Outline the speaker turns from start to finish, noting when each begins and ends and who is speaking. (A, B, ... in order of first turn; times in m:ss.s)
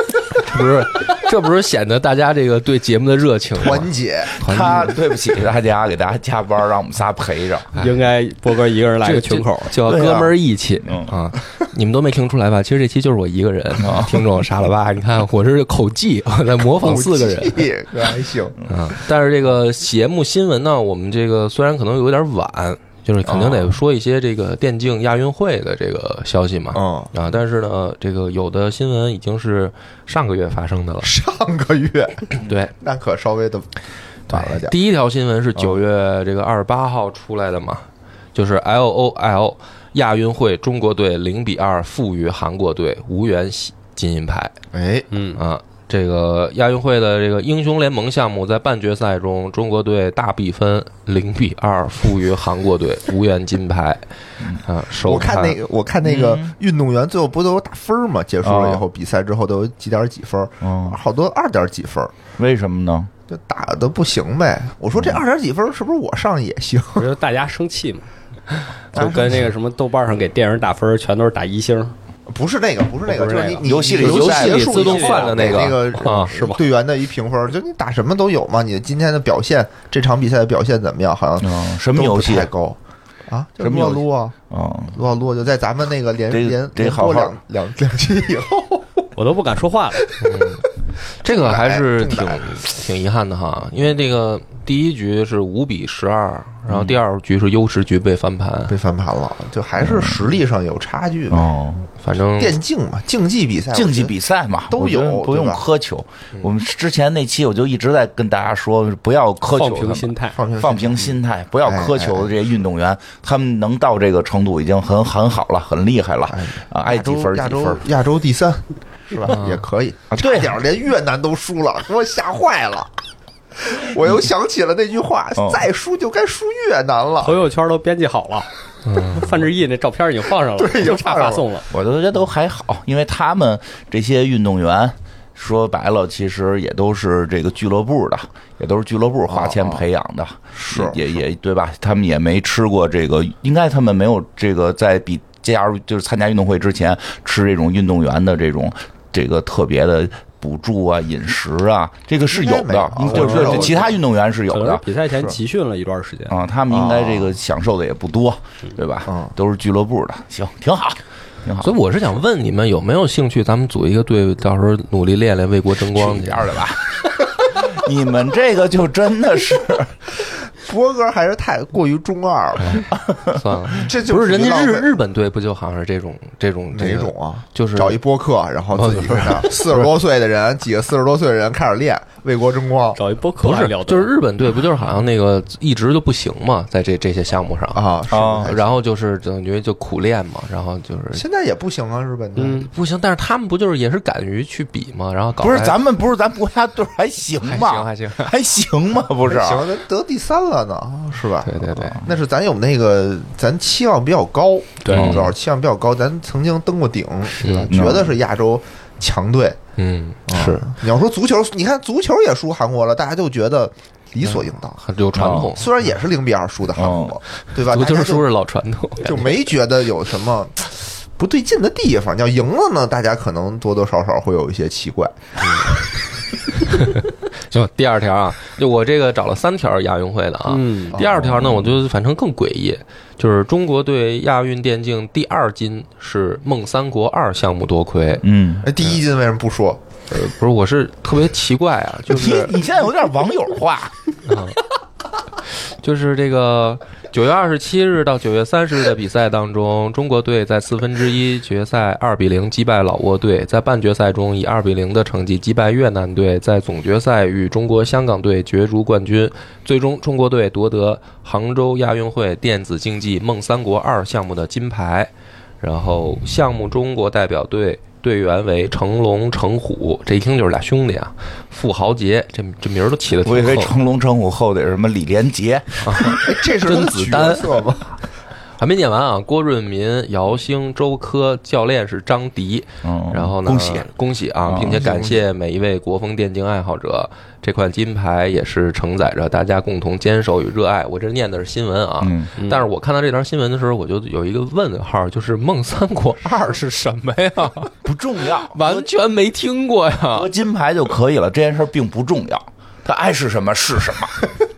0:00.3-0:05.0 A
0:03.6-0:04.4 B
0:04.4-0:07.7 C
0:07.8-0:09.7 D
0:09.0-0:17.7 A
0:09.8-0:11.1 C
0:13.8-0:14.2 C
0:16.8-0:18.6 B
0:18.7-0:31.1 A
0:26.7-0:27.1 B
0:31.0-0:33.7 B
0:32.4-0:32.7 A
0:34.3-0:34.7 B
0:34.3-0:44.5 A
0:44.7-0:45.1 B
0:45.1-0:45.4 D
0:45.3-0:54.0 A
0:54.6-0:55.6 A
0:54.9-1:02.1 B
0:56.0-0:56.5 C
0:58.4-0:58.8 C
1:00.6-1:01.0 C
1:02.4-1:03.1 C
1:03.3-1:07.1 B
1:04.9-1:05.2 C
1:07.0-1:08.1 D
1:08.9-1:11.9 D
1:08.9-1:09.5 B
1:12.3-1:24.3 B
1:13.0-1:16.6 D
1:13.6-1:14.8 C
1:14.0-1:16.3 A
1:21.4-1:22.5 C
1:23.6-1:25.0 C
1:24.9-1:29.1 B
1:26.3-1:27.4 C
1:29.2-1:30.1 D
1:30.2-1:30.6 A
1:31.2-1:38.7 A
1:31.2-1:32.6 B
1:36.7-1:37.0 C
1:38.7-1:41.5 B
1:39.8-1:40.2 C
1:41.3-1:41.9 C
1:42.0-1:42.6 A
1:42.4-1:44.1 B
1:43.7-1:57.8 C
1:44.7-1:45.6 B
1:49.5-1:50.4 D
1:50.3-1:52.3 B
1:56.3-2:02.9 B
1:59.2-1:59.6 A
2:00.1-2:00.6 C
2:03.6-2:07.4 B
2:05.4-2:05.6 C
2:07.2-2:08.5 D
2:08.8-2:09.3 A
2:09.1-2:11.7 D
2:10.6-2:11.4 B
2:11.7-2:34.8 C
2:19.3-2:19.8 B
2:20.5-2:21.2 B
2:32.2-2:34.0 B
2:33.0-2:33.8 D
2:34.5-2:36.3 D
2:36.3-2:41.7 C
2:36.7-2:37.3 B
2:39.1-2:39.3 B
2:41.6-2:46.5 A
2:45.9-2:49.9 C
2:50.6-2:52.8 B
2:52.6-2:58.0 A
2:52.9-2:53.4 C
2:53.7-2:54.9 B
2:56.7-3:03.0 B
2:58.7-2:59.9 A
3:03.0-3:04.1 D
3:03.4-3:07.8 A
3:07.7-3:08.7 B
3:08.1-3:08.5 C
3:08.4-3:11.2 A
3:11.1-3:12.7 B
3:12.4-3:12.7 D
3:12.5-3:15.8 A
3:15.4-3:19.7 C
3:17.4-3:18.3 A
3:19.2-3:29.6 B
3:21.4-3:22.0 A
3:24.8-3:25.2 D
3:24.9-3:25.2 A
3:24.9-3:25.3 C
3:27.4-3:27.8 A
3:27.7-3:28.1 C
3:29.8-3:30.7 A
3:30.3-3:38.2 B
3:34.2-3:35.7 A
3:35.2-3:35.5 C
3:36.7-3:37.2 C
3:37.6-3:39.4 A
3:39.0-3:45.7 B
3:46.6-3:58.2 A
3:50.5-3:50.9 D
3:51.0-3:51.7 C
3:58.2-3:58.7 C
3:58.6-3:59.8 B
4:00.1-4:02.6 A
4:02.1-4:03.9 C
4:04.2-4:04.6 A
4:05.6-4:33.7 A
4:33.2-4:36.2 C
4:35.8-4:37.6 A
4:36.0-4:37.9 B
4:38.6-4:57.7 A
4:42.8-4:43.9 C
4:44.5-4:44.8 C
4:44.6-4:45.2 B
4:52.0-4:52.3 C
4:52.4-4:52.6 D
4:57.8-4:58.9 C
4:58.4-5:00.3 A
5:00.1-5:04.2 C